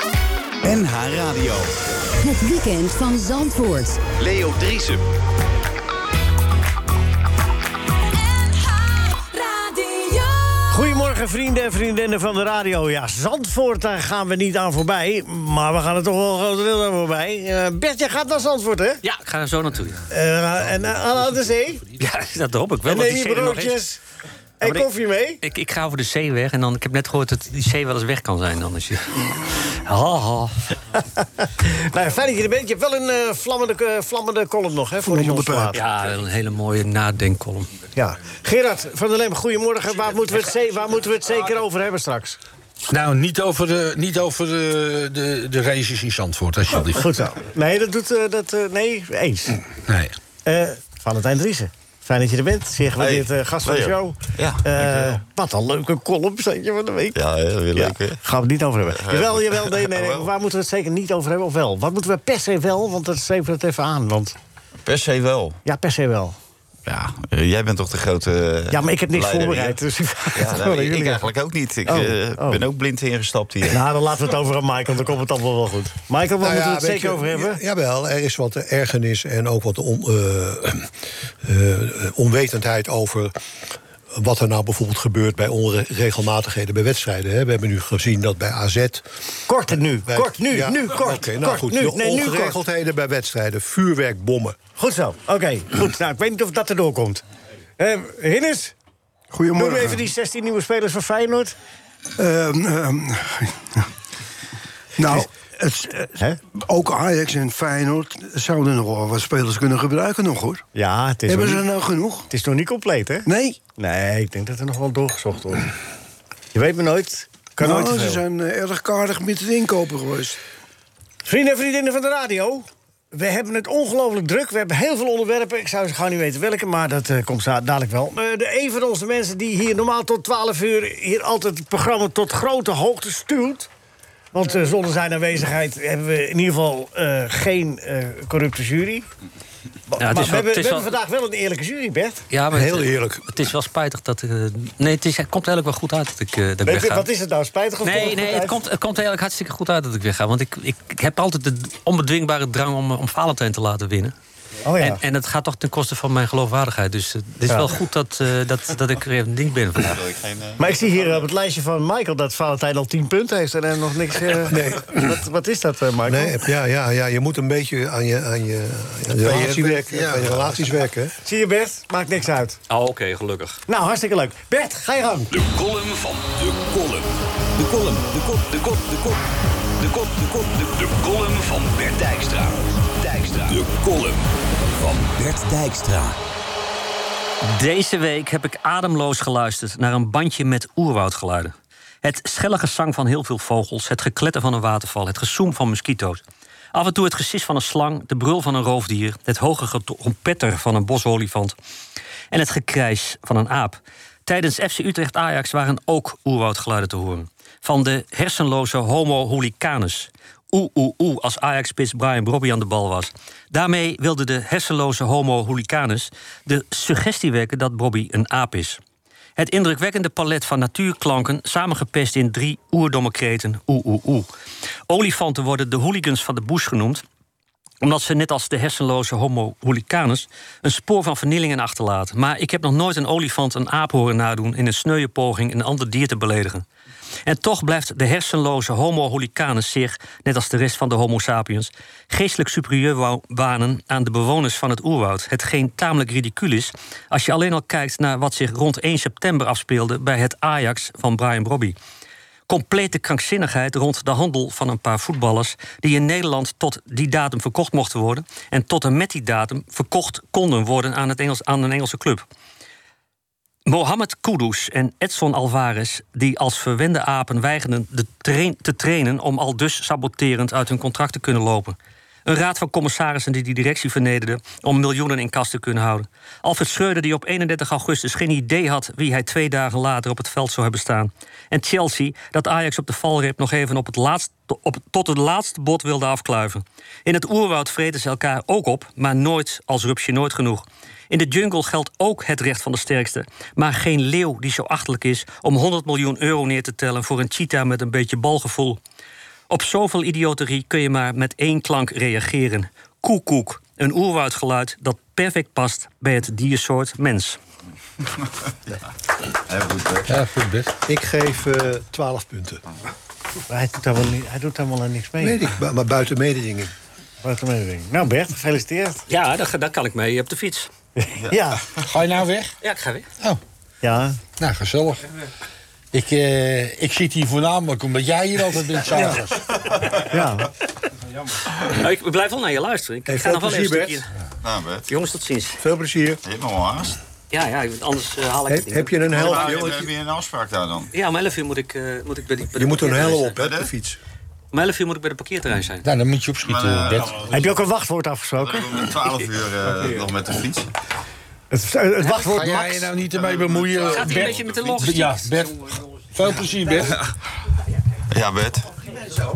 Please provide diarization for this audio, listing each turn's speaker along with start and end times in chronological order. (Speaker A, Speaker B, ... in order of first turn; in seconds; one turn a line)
Speaker A: 0.6-1.7
Speaker B: 2.2-4.0
Speaker A: 4.2-5.0
Speaker B: 8.2-11.0
Speaker C: 10.7-19.0
Speaker D: 19.0-20.0
Speaker C: 20.1-21.8
Speaker E: 20.7-22.0
Speaker D: 22.0-23.8
Speaker C: 22.8-24.0
Speaker C: 24.6-25.4
Speaker D: 24.6-24.9
Speaker D: 25.4-29.3
Speaker C: 29.9-35.8
Speaker F: 35.1-35.5
Speaker G: 35.3-35.6
Speaker D: 35.7-37.7
Speaker C: 37.9-42.4
Speaker E: 42.9-47.3
Speaker C: 46.9-49.6
Speaker E: 49.9-50.2
Speaker C: 50.4-57.2
Speaker H: 53.0-55.2
Speaker H: 57.1-58.2
Speaker C: 57.7-64.4
Speaker H: 59.0-60.3
Speaker H: 64.8-65.6
Speaker C: 65.6-66.4
Speaker H: 66.8-69.8
Speaker C: 68.7-71.2
Speaker H: 70.3-73.8
Speaker C: 71.9-72.6
Speaker C: 73.7-77.6
Speaker G: 76.4-83.4
Speaker G: 84.1-89.2
Speaker C: 89.5-92.6
Speaker G: 90.0-94.6
Speaker C: 94.8-97.2
Speaker C: 97.8-98.7
Speaker F: 99.3-100.0
Speaker C: 99.5-101.5
Speaker F: 102.2-103.9
Speaker F: 105.0-110.6
Speaker C: 110.7-111.6
Speaker F: 111.3-112.3
Speaker C: 112.3-115.7
Speaker F: 113.2-113.6
Speaker C: 116.5-118.2
Speaker F: 117.6-120.4
Speaker C: 121.2-133.7
Speaker C: 134.3-139.1
Speaker C: 139.9-142.2
Speaker D: 140.0-140.9
Speaker D: 142.3-147.1
Speaker G: 142.5-143.2
Speaker C: 146.6-148.6
Speaker D: 147.8-154.1
Speaker C: 154.7-155.0
Speaker D: 154.8-160.0
Speaker C: 157.4-157.7
Speaker H: 159.8-160.7
Speaker C: 160.6-166.4
Speaker G: 164.5-165.1
Speaker G: 166.1-171.1
Speaker E: 169.2-170.8
Speaker C: 171.2-172.6
Speaker D: 172.7-173.6
Speaker C: 173.7-175.3
Speaker A: 175.3-179.2
Speaker A: 179.8-186.2
Speaker D: 187.4-196.2
Speaker D: 196.7-201.6
Speaker D: 202.3-218.8
Speaker D: 219.4-224.3
Speaker D: 224.9-227.0
Speaker D: 227.8-236.6
Speaker D: 237.3-251.8
Speaker D: 252.5-262.2
Speaker D: 263.6-298.8
Speaker D: 299.5-307.4
Speaker H: 309.5-310.1
Speaker E: 310.1-310.7
Speaker G: 310.9-312.6
Speaker C: 313.5-315.4
Speaker G: 315.2-316.7
Speaker C: 317.2-319.0
Speaker D: 319.1-320.7
Speaker C: 321.0-321.6
Speaker E: 321.9-322.6
Speaker D: 322.6-323.1
Speaker C: 323.8-324.2
Speaker E: 324.4-325.1
Speaker E: 325.9-329.5
Speaker C: 330.1-330.5
Speaker D: 331.6-334.1
Speaker G: 333.1-334.0
Speaker H: 334.4-334.9
Speaker D: 334.9-335.6
Speaker G: 335.6-336.2
Speaker H: 336.2-337.0
Speaker D: 337.3-339.7
Speaker G: 338.5-339.9
Speaker H: 339.1-340.9
Speaker D: 340.9-343.3
Speaker G: 342.5-344.0
Speaker D: 344.5-345.8
Speaker E: 345.8-347.2
Speaker H: 346.4-347.5
Speaker C: 347.3-348.7
Speaker H: 348.4-350.7
Speaker C: 351.5-352.9
Speaker E: 352.1-357.0
Speaker D: 353.7-355.4
Speaker H: 358.1-358.7